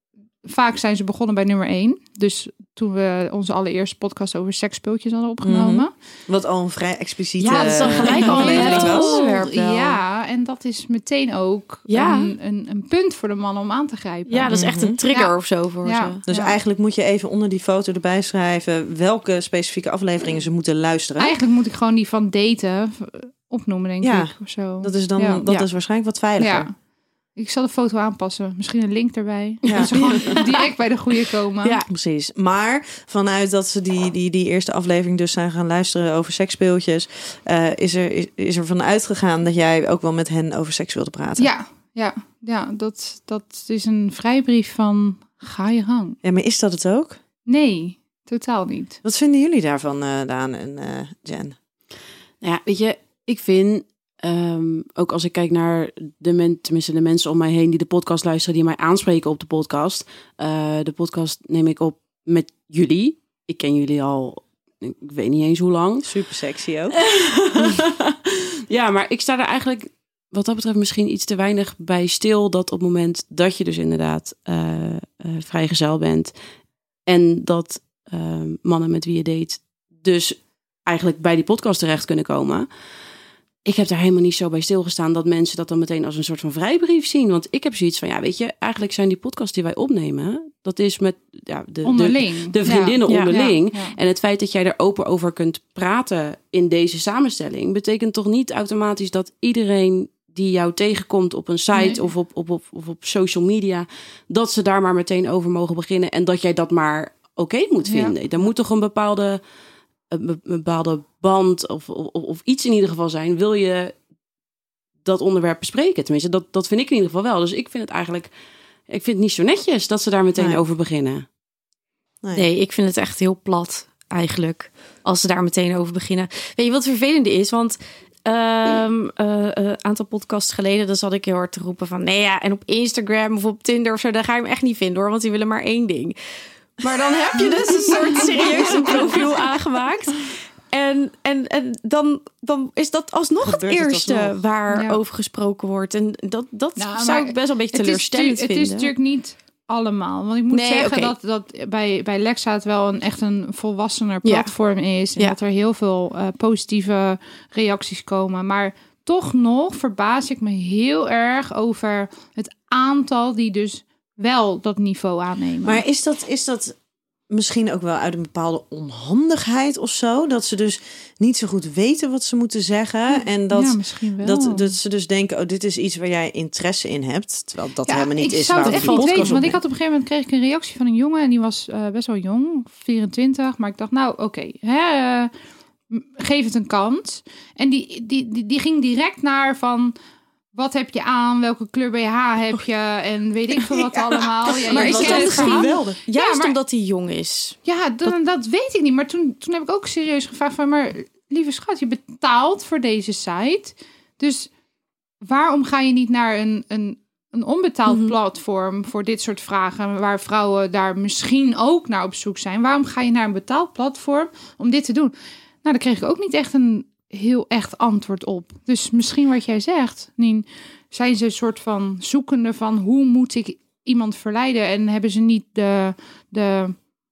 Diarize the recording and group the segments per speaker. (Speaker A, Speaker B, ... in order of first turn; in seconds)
Speaker A: 0.4-5.9, 7.5-16.6, 21.2-25.4, 26.4-26.7, 27.4-31.8, 41.4-46.2, 47.5-49.0, 91.8-94.0, 101.7-102.0, 107.8-108.2, 137.9-139.3, 144.7-145.0, 146.8-165.8, 173.5-174.7, 177.8-185.3, 185.9-189.9, 190.5-196.5, 197.6-204.5, 205.2-215.1, 215.6-226.8
Speaker B: 5.4-9.2, 14.5-15.0, 16.3-21.3, 24.0-26.7, 29.6-30.4, 31.9-41.5, 46.2-47.2, 49.0-51.5, 66.0-67.0, 120.4-120.6, 143.4-144.4, 165.6-166.8, 167.3-179.6, 193.6-196.0
Speaker C: 7.4-10.0, 11.9-12.3, 14.3-16.2, 29.7-30.7, 31.6-31.9, 93.0-93.3, 122.3-136.2, 136.8-148.9, 150.5-151.1, 154.2-154.5, 178.6-179.5, 194.7-198.1, 207.9-208.1
Speaker D: 52.4-66.1, 66.9-76.3, 77.0-82.7, 83.6-109.4, 110.1-113.9, 115.0-118.3, 118.9-121.2